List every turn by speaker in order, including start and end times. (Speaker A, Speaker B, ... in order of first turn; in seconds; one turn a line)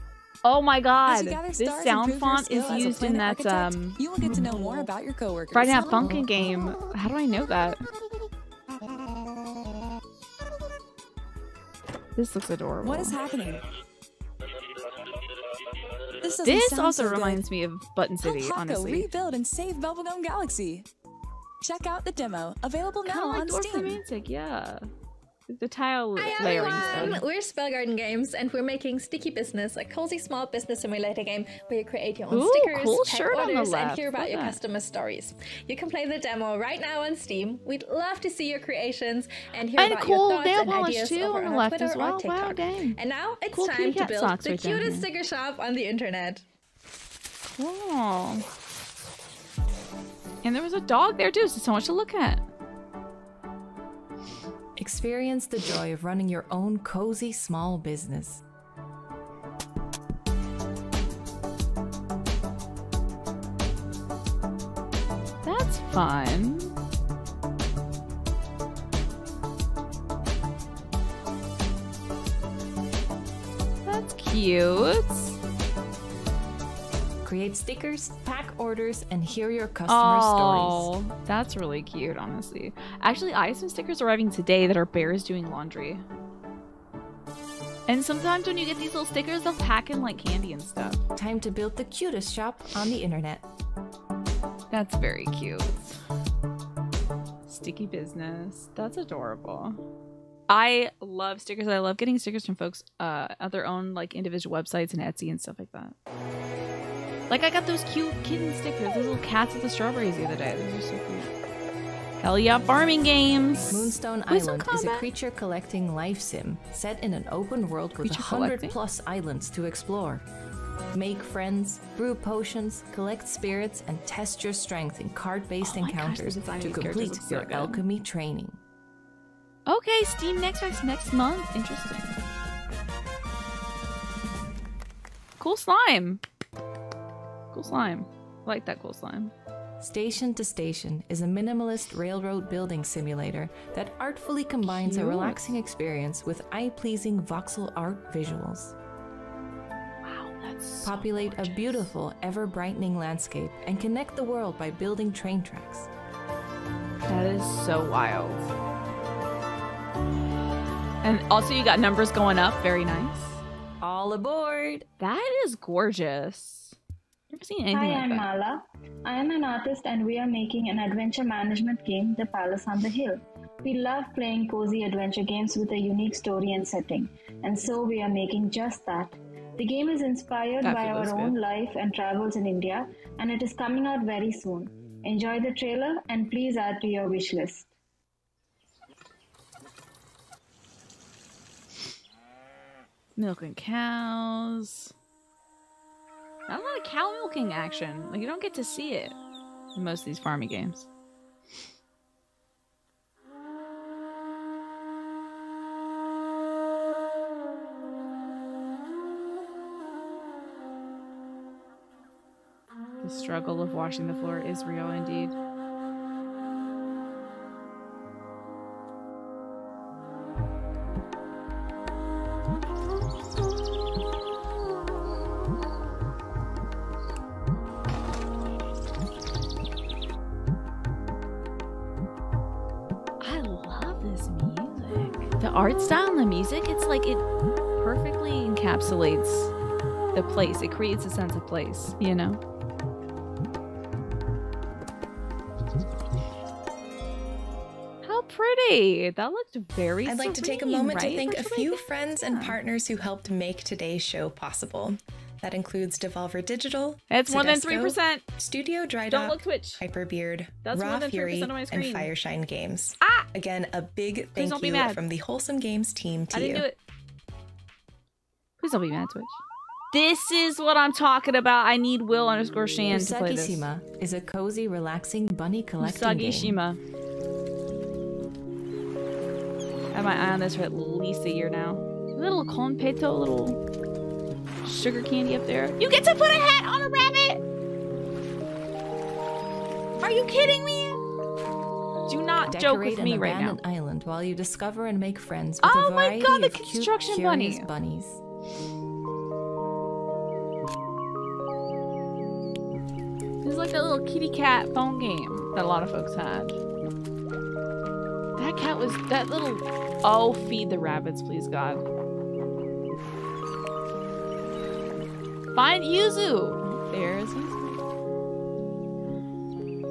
Speaker A: 0.4-4.9
Speaker B: 1.1-6.3
Speaker A: 5.5-7.8
Speaker A: 12.2-13.2
Speaker B: 12.8-13.6
Speaker B: 16.2-17.4
Speaker A: 16.4-19.1
Speaker B: 18.2-20.9
Speaker B: 21.6-24.0
Speaker A: 23.1-24.9
Speaker A: 25.5-27.2
Speaker C: 26.2-46.4
Speaker B: 26.4-27.2
Speaker A: 32.3-34.6
Speaker A: 39.8-43.0
Speaker A: 43.5-45.1
Speaker A: 47.6-48.5
Speaker A: 50.4-52.4
Speaker D: 54.8-58.4
Speaker A: 65.4-66.7
Speaker A: 73.8-75.4
Speaker D: 77.2-80.9
Speaker A: 79.9-86.0
Speaker A: 87.9-91.0
Speaker D: 91.2-93.5
Speaker A: 94.7-96.0
Speaker A: 97.5-99.8
Speaker A: 100.5-106.0
Speaker A: 107.3-111.3
Speaker A: 112.2-115.1
Speaker D: 113.7-120.2
Speaker A: 118.0-118.8
Speaker D: 120.9-128.6
Speaker A: 125.6-127.8
Speaker A: 129.7-132.2
Speaker A: 135.4-136.2
Speaker A: 137.5-139.3
Speaker D: 139.8-148.8
Speaker A: 144.6-145.6
Speaker A: 150.0-151.9
Speaker D: 150.8-155.9
Speaker A: 157.1-158.5
Speaker A: 161.0-163.4
Speaker D: 163.8-164.8
Speaker A: 165.0-166.8
Speaker A: 167.3-168.3
Speaker E: 167.7-187.7
Speaker A: 180.6-181.3
Speaker A: 193.2-194.9
Speaker A: 196.5-199.2
Speaker A: 199.8-200.9
Speaker A: 213.0-215.3
Speaker A: 233.2-237.2
Speaker A: 237.8-239.5
Speaker A: 240.2-242.4
Speaker A: 248.0-252.6
Speaker F: 250.1-266.7
Speaker A: 257.1-258.2
Speaker A: 259.1-259.8
Speaker A: 260.6-262.1
Speaker A: 263.0-263.3
Speaker A: 264.4-265.0
Speaker A: 266.3-266.8
Speaker A: 268.6-269.4
Speaker A: 269.9-273.7
Speaker D: 272.9-276.6
Speaker A: 275.8-276.8
Speaker A: 279.9-283.6
Speaker A: 284.6-287.4
Speaker A: 290.0-291.0
Speaker A: 292.1-293.6
Speaker D: 292.5-298.2
Speaker A: 295.6-297.7
Speaker A: 303.4-306.6
Speaker A: 308.4-311.8
Speaker A: 315.5-317.8